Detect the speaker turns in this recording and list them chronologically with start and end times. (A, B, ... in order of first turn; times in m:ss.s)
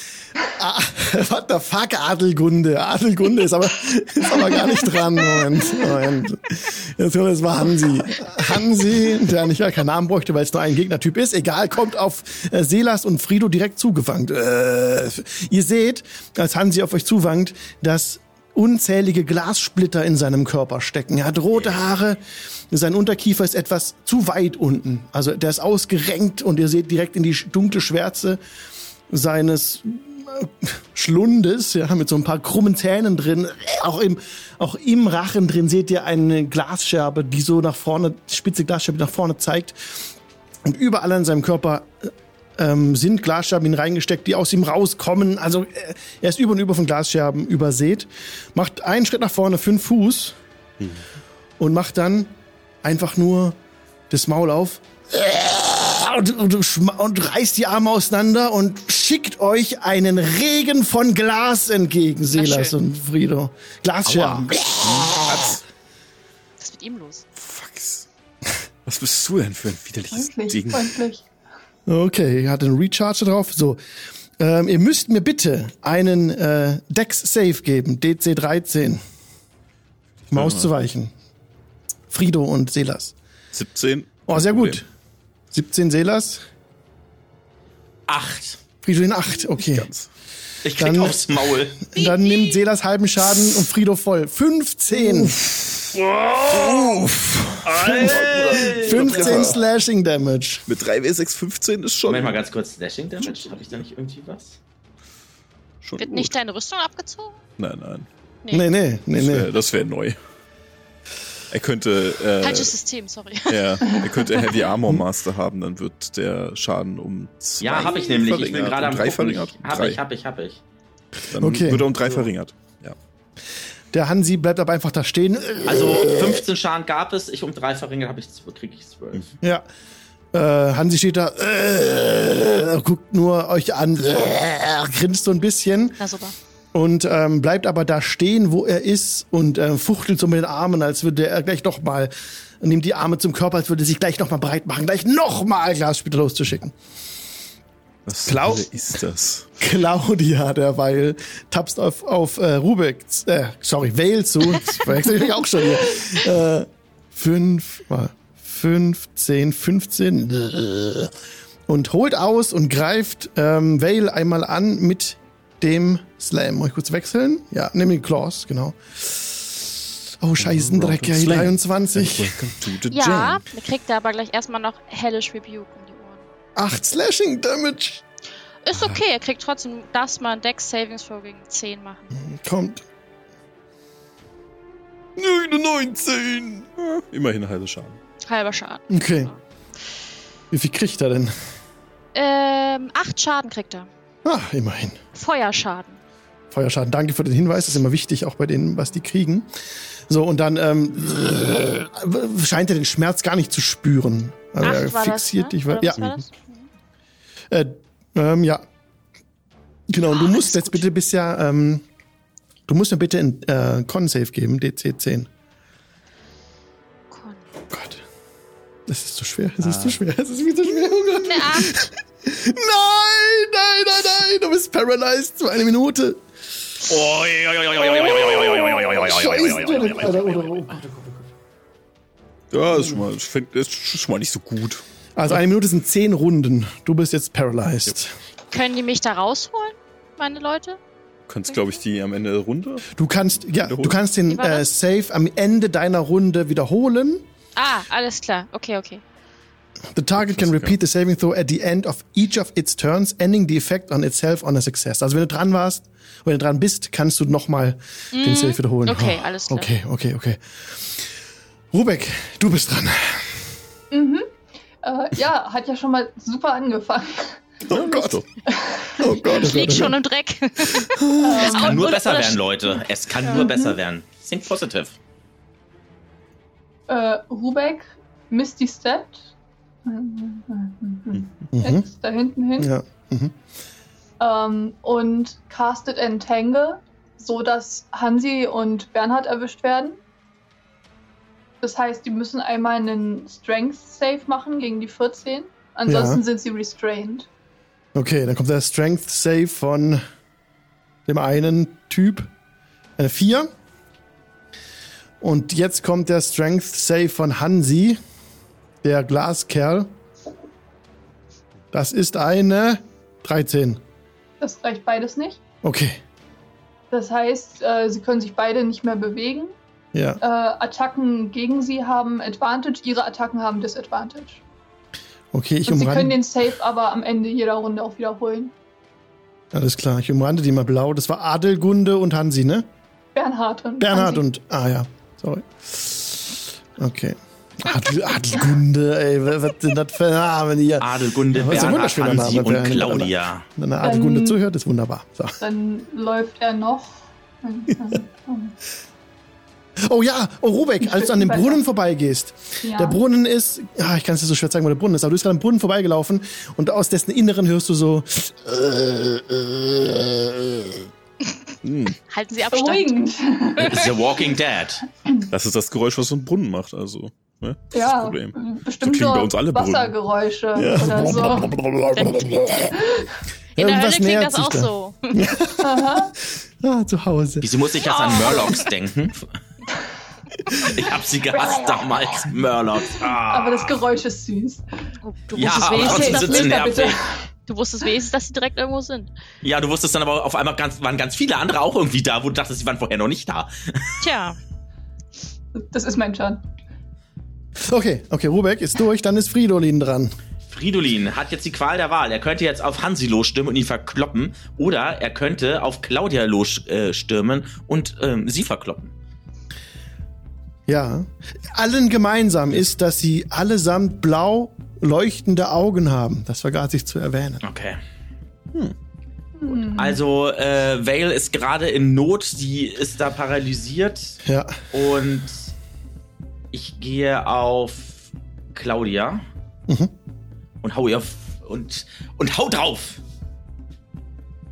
0:00.5-0:28.4 A
0:29.1-0:40.1 A
0:40.6-0:50.4 A
0:51.6-0:52.3 A
0:52.8-0:53.6 A
0:54.1-1:05.6 A
1:02.3-1:02.8 B
1:04.1-1:04.6 C
1:04.4-1:05.6 D
1:06.6-1:07.2 B
1:07.4-1:08.1 D
1:08.8-1:11.0 D
1:10.1-1:11.2 E
1:11.9-1:13.8 A
1:14.4-1:19.0 A
1:20.3-1:20.7 D
1:20.3-1:21.1 A
1:22.1-1:23.2 A
1:23.5-1:24.8 D
1:24.3-1:24.9 A
1:25.5-1:26.4 A
1:28.1-1:28.6 C
1:28.8-1:29.9 A
1:29.4-1:30.1 D
1:30.6-1:31.9 C
1:30.8-1:35.4 A
1:32.0-1:32.6 B
1:36.5-1:36.9 C
1:36.5-1:39.6 D
1:37.5-1:40.7 A
1:37.7-1:39.6 C
1:40.7-1:42.4 D
1:42.1-1:44.6 C
1:45.8-1:46.3 D
1:46.0-1:47.4 B
1:47.6-1:48.1 D
1:48.5-1:49.5 A
1:49.2-1:50.2 D
1:51.5-1:52.7 D
1:52.4-1:54.0 B
1:53.5-2:00.0 D
1:57.6-2:00.6 C
2:01.3-2:03.0 D
2:01.4-2:01.9 A
2:03.9-2:06.4 A
2:05.6-2:09.3 C
2:10.3-2:16.0 A
2:16.0-2:16.4 B
2:16.7-2:26.8 A
2:28.1-2:29.5 D
2:28.2-2:28.7 A
2:29.6-2:41.1 A
2:41.7-2:52.4 A
2:50.4-2:53.4 D
2:52.9-2:56.2 B
2:56.6-2:58.0 A
2:58.6-3:02.1 B
2:58.8-2:59.0 D
3:02.1-3:02.8 A
3:05.2-3:05.5 D
3:05.2-3:06.6 A
3:06.6-3:08.0 D
3:08.3-3:08.9 B
3:08.9-3:09.3 A
3:10.5-3:11.3 A
3:12.1-3:13.9 B
3:14.2-3:15.0 A
3:15.2-3:16.0 B
3:16.5-3:19.5 A
3:20.1-3:26.2 A
3:24.6-3:26.7 B
3:27.5-3:28.6 A
3:29.9-3:31.8 A
3:30.1-3:30.9 B
3:32.7-3:35.3 A
3:37.1-3:37.4 B
3:37.7-3:38.0 A
3:38.9-3:46.2 A
3:41.1-3:41.9 B
3:46.9-3:50.8 C
3:47.9-3:51.3 A
3:52.5-3:55.4 D
3:55.2-3:58.2 A
3:58.5-4:00.8 B
4:01.3-4:04.0 D
4:02.9-4:07.2 A
4:04.3-4:04.7 B
4:07.6-4:09.0 B
4:10.0-4:21.1 A
4:10.1-4:10.8 D
4:18.1-4:19.7 B
4:21.7-4:23.4 A
4:23.9-4:24.3 E
4:24.8-4:27.6 E
4:27.7-4:28.2 D
4:27.7-4:28.2 A
4:28.5-4:29.0 E
4:29.0-4:30.0 A
4:29.2-4:33.5 B
4:30.9-4:31.5 A
4:31.2-4:31.9 E
4:31.4-4:35.0 C
4:33.2-4:33.8 E
4:36.9-4:39.3 E
4:39.8-4:42.7 E
4:41.5-4:41.8 A
4:42.6-4:43.4 A
4:44.2-4:50.0 E
4:51.6-4:57.3 E
4:55.9-4:56.2 A
4:58.0-5:00.0 A
5:01.1-5:02.3 A
5:03.0-5:03.5 A
5:05.2-5:08.0 A
5:08.8-5:09.9 A
5:11.7-5:13.8 A
5:14.4-5:15.4 E
5:15.6-5:16.0 A
5:16.9-5:19.5 E
5:19.9-5:20.2 A
5:20.2-5:24.4 E
5:25.3-5:26.2 A
5:25.7-5:28.5 E
5:29.5-5:32.7 A
5:33.2-5:34.2 E
5:33.8-5:45.4 A
5:40.8-5:43.5 C
5:43.8-5:44.4 E
5:45.4-5:48.5 E
5:49.8-6:00.8 A
5:50.8-5:51.6 E
5:52.6-5:53.0 E
6:01.6-6:02.0 D
6:02.1-6:03.1 B
6:02.5-6:04.1 E
6:03.6-6:04.8 C
6:05.3-6:10.0 D
6:07.7-6:11.5 E
6:10.6-6:12.8 A
6:12.0-6:12.5 B
6:12.8-6:13.1 E
6:13.6-6:15.3 B
6:13.6-6:17.5 A
6:15.6-6:16.1 E
6:17.4-6:19.4 C
6:17.9-6:18.6 E
6:18.0-6:18.7 B
6:20.6-6:23.8 C
6:21.3-6:21.9 E
6:23.3-6:24.8 E
6:25.0-6:26.8 B
6:25.3-6:27.0 C
6:25.5-6:27.2 E
6:27.5-6:29.1 B
6:29.4-6:34.0 C
6:34.0-6:34.4 B
6:35.5-6:36.4 E
6:37.6-6:40.2 A
6:40.5-6:48.9 C
6:50.7-6:57.4 A
6:57.4-6:57.8 C
6:59.4-7:00.0 E
6:59.7-7:04.2 C
7:04.2-7:04.6 A
7:04.7-7:05.5 C
7:06.5-7:09.2 C
7:10.6-7:13.0 C